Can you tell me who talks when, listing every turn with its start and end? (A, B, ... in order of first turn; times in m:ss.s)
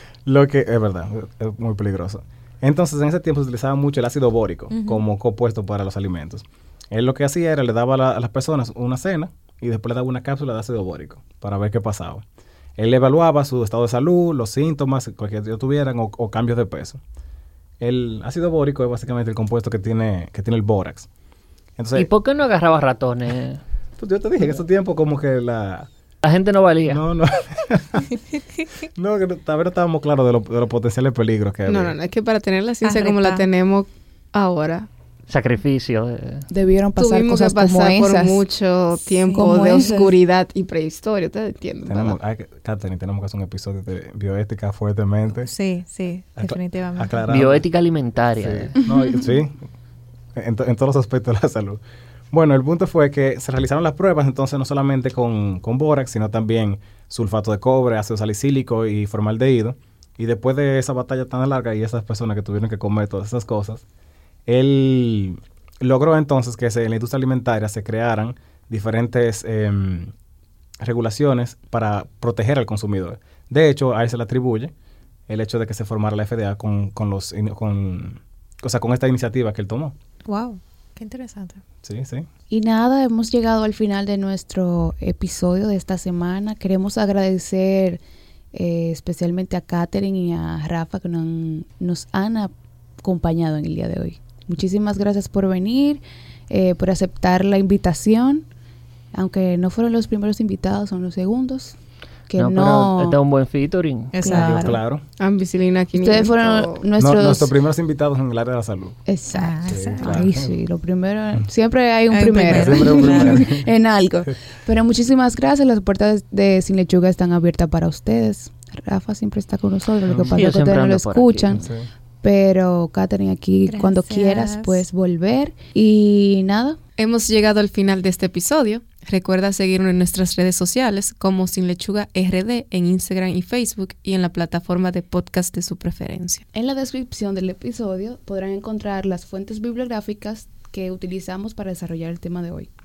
0:00.2-0:12.2 A
0:04.7-0:05.0 B
0:12.8-0:17.0 A
0:17.8-0:21.1 A
0:21.8-0:22.1 A
0:22.0-0:23.6 C
0:24.0-0:25.9 A
0:26.2-0:27.0 C
0:26.9-0:28.1 A
0:28.9-0:32.0 A
0:31.6-0:34.9 D
0:32.8-0:33.5 B
0:35.3-0:36.5 C
0:36.5-0:38.4 E
0:37.0-0:42.2 D
0:39.2-0:40.0 B
0:39.3-0:40.2 E
0:41.9-0:45.5 A
0:45.4-0:47.2 B
0:46.4-0:47.6 A
0:47.3-0:48.8 C
0:48.4-0:49.6 A
0:50.4-1:03.8 A
1:04.5-1:10.1 A
1:10.8-1:14.7 A
1:15.3-1:20.0 A
1:20.3-1:21.6 B
1:21.8-1:22.3 A
1:22.5-1:28.0 E
1:28.5-1:38.5 E
1:39.1-1:41.8 E
1:42.3-1:43.2 E
1:42.4-1:44.1 C
1:44.1-1:44.8 B
1:44.2-1:44.8 E
1:44.3-1:45.0 A
1:45.2-1:46.8 D
1:46.0-1:47.5 E
1:47.0-1:49.0 A
1:49.1-2:01.6 E
1:49.3-1:50.3 B
1:49.6-1:50.5 A
1:52.1-1:53.4 B
1:52.5-1:53.7 A
2:00.1-2:00.5 A
2:00.3-2:01.7 C
2:01.5-2:01.9 A
2:02.2-2:06.8 E
2:03.7-2:04.8 B
2:07.0-2:16.4 D
2:16.5-2:22.7 E